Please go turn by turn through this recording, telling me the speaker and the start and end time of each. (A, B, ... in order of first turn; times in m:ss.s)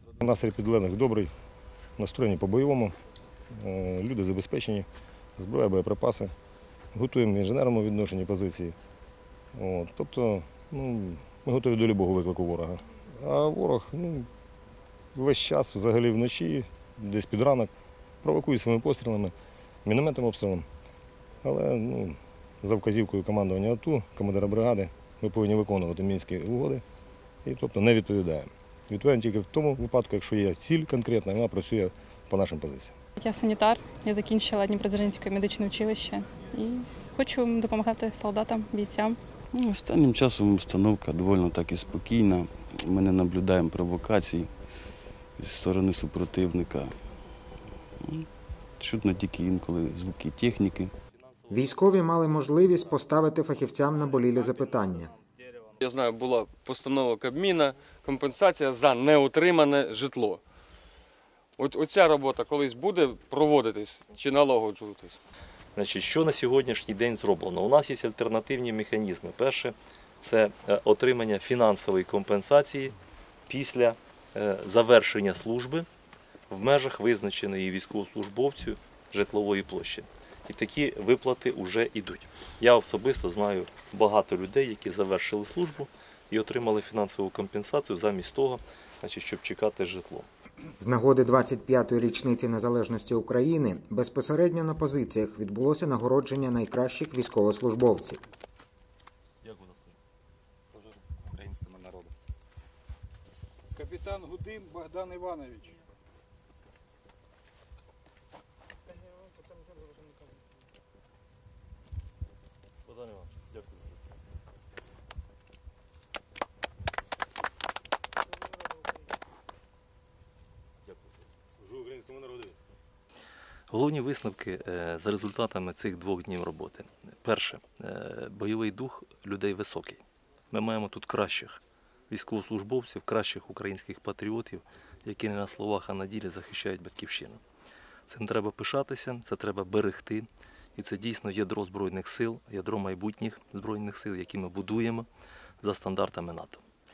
0:00.2-0:01.3 A
0:02.0-0:02.9 A
0:03.6-0:04.8 A
0:05.4-0:06.3 A
0:06.9-0:08.8 A
0:09.5-0:14.3 A
0:15.1-0:17.7 A
0:18.2-0:19.3 A
0:19.8-0:20.6 A
0:21.4-0:26.8 A
0:27.4-0:32.9 A
0:33.2-0:39.2 B
0:39.5-0:44.5 C
0:45.4-0:47.0 C
0:48.0-0:48.3 C
0:48.8-0:50.9 C
0:51.5-0:55.1 D
0:55.8-1:00.4 E
1:01.6-1:05.2 E
1:05.8-1:12.9 F
1:13.5-1:15.9 F
1:16.5-1:30.3 F
1:30.8-1:38.2 D
1:40.7-1:42.1 E
1:43.8-1:45.7 G
1:53.0-1:53.8 F
2:00.9-2:02.6 A
2:03.7-2:17.4 F
2:18.1-2:25.1 F
2:25.6-2:26.6 F